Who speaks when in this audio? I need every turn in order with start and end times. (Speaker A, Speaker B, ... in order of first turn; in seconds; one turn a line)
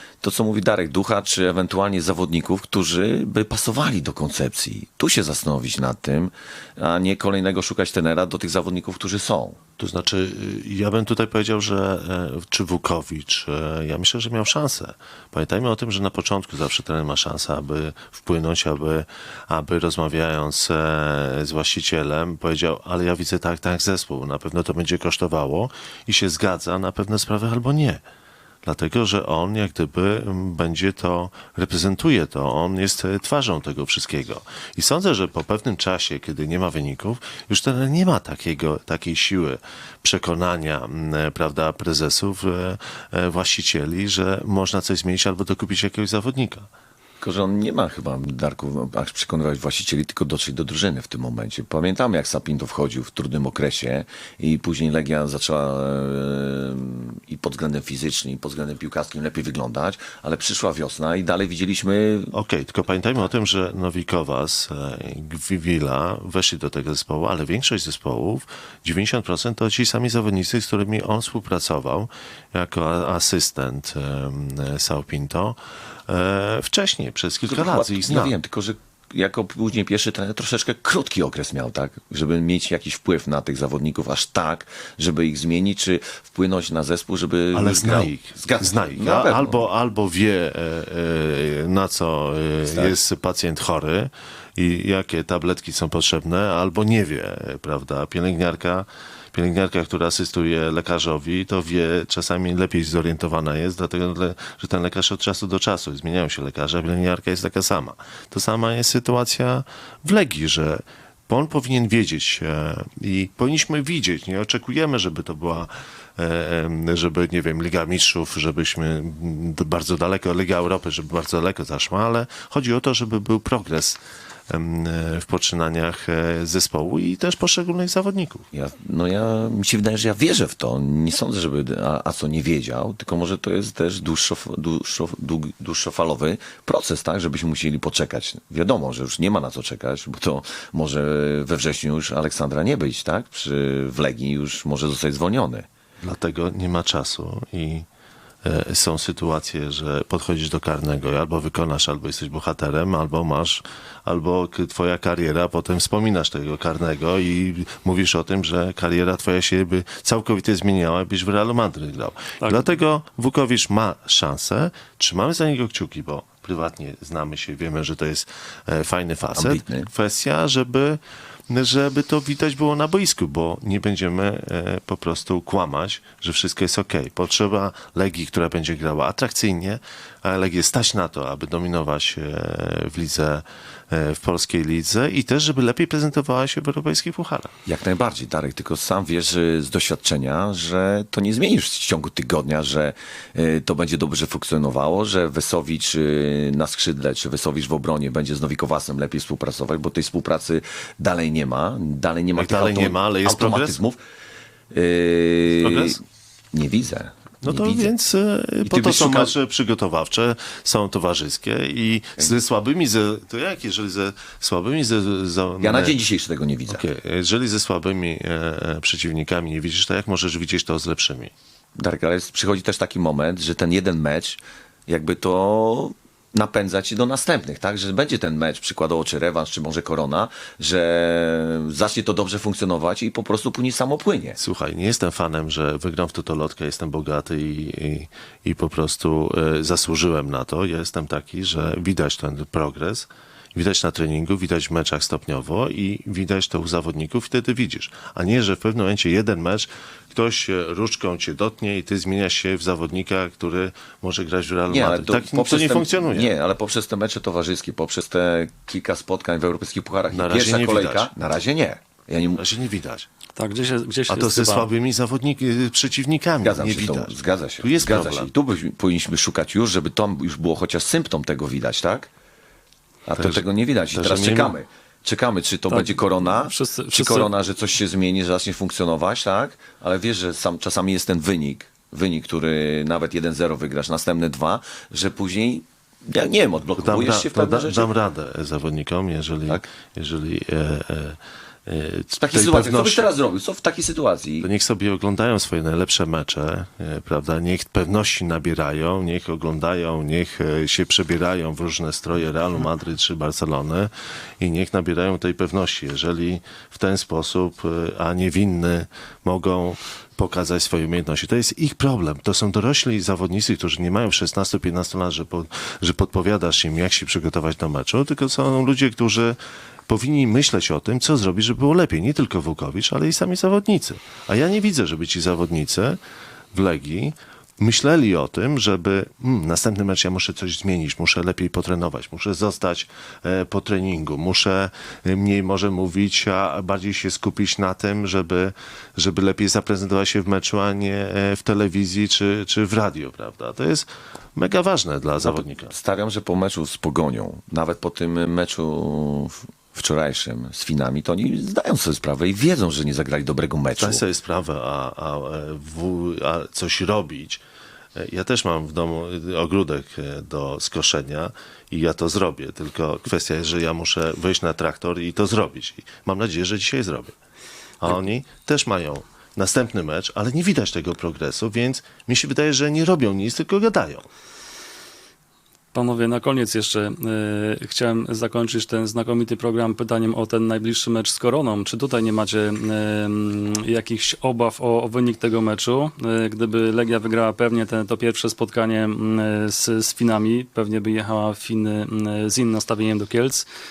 Speaker A: 0.2-9.6
Speaker B: 9.8-28.0
Speaker B: 28.6-46.7
Speaker A: 47.2-62.3
Speaker B: 62.3-78.3
Speaker A: 77.5-89.6
Speaker B: 87.5-128.5
Speaker A: 92.7-93.0
Speaker A: 128.5-145.7
Speaker B: 146.0-147.9
Speaker B: 148.4-187.5
Speaker C: 162.4-162.7
Speaker A: 169.4-169.9
Speaker A: 187.7-204.0
Speaker B: 202.4-203.8
Speaker A: 204.7-206.0
Speaker B: 205.6-206.0
Speaker A: 206.5-207.9
Speaker B: 207.4-216.0
Speaker A: 208.7-209.3
Speaker A: 215.6-216.8
Speaker B: 216.7-221.3
Speaker A: 221.8-234.4
Speaker B: 234.4-256.3
Speaker A: 254.7-262.4
Speaker B: 260.1-261.1
Speaker B: 262.4-263.1
Speaker C: 263.4-264.7
Speaker B: 264.1-268.3
Speaker A: 266.4-272.1
Speaker A: 273.1-287.9
Speaker B: 273.2-274.6
Speaker C: 275.7-277.3
Speaker B: 286.8-293.1
Speaker A: 292.2-294.5
Speaker B: 294.4-319.4
Speaker B: 319.9-326.0
Speaker B: 326.5-345.7
Speaker A: 345.2-354.0
Speaker B: 353.8-357.4
Speaker B: 357.9-367.2
Speaker B: 367.8-374.1
Speaker C: 375.7-393.5